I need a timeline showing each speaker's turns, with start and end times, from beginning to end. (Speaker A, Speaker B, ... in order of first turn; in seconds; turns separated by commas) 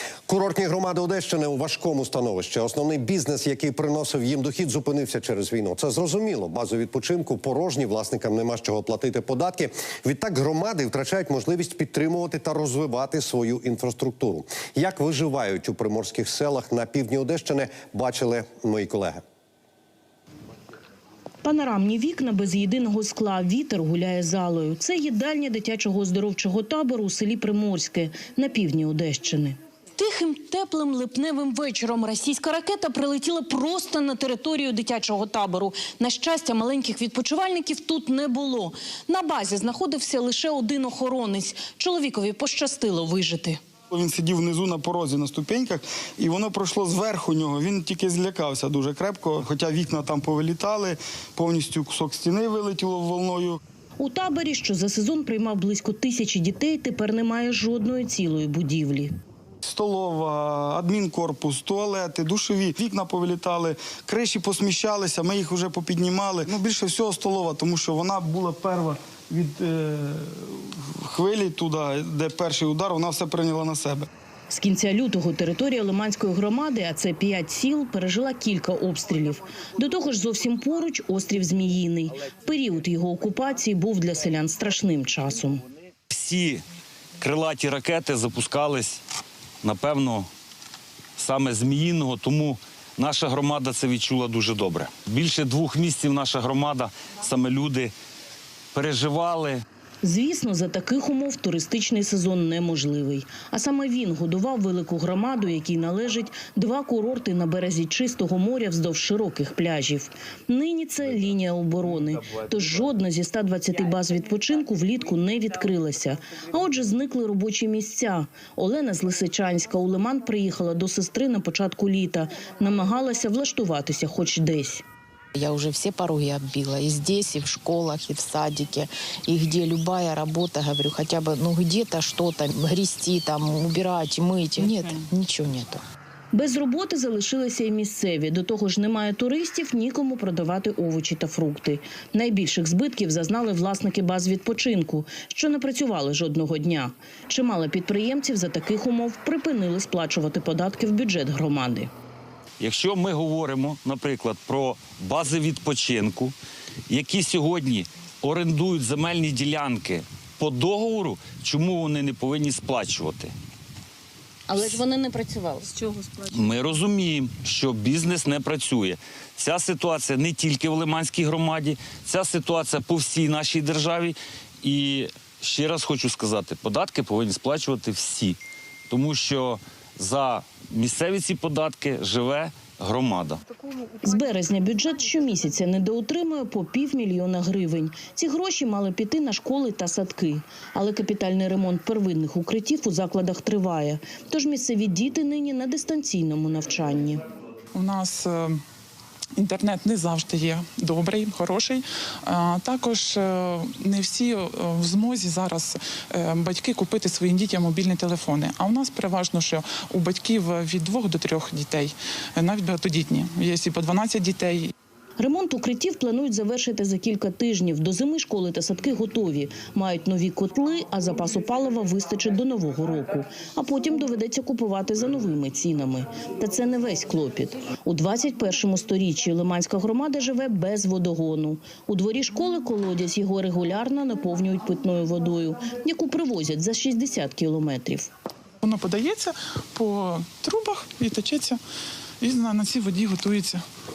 Speaker A: 0.3-19.2, Speaker B: 21.4-43.6, Speaker C: 43.9-53.6, Speaker B: 54.0-59.1, Speaker C: 59.6-74.1, Speaker B: 74.5-85.6, Speaker D: 86.1-86.6, Speaker D: 87.2-89.0, Speaker D: 89.6-90.3, Speaker D: 91.2-97.9, Speaker D: 98.7-99.6, Speaker B: 100.0-124.8, Speaker E: 125.3-135.8, Speaker F: 134.6-135.1, Speaker B: 136.3-151.9, Speaker D: 152.6-156.3, Speaker D: 156.9-163.3, Speaker B: 164.5-166.2, Speaker D: 166.3-178.4, Speaker D: 178.9-183.4, Speaker B: 184.0-197.2, Speaker F: 197.7-198.6, Speaker F: 199.4-214.7, Speaker B: 215.2-238.1, Speaker F: 238.6-241.6, Speaker F: 242.2-243.6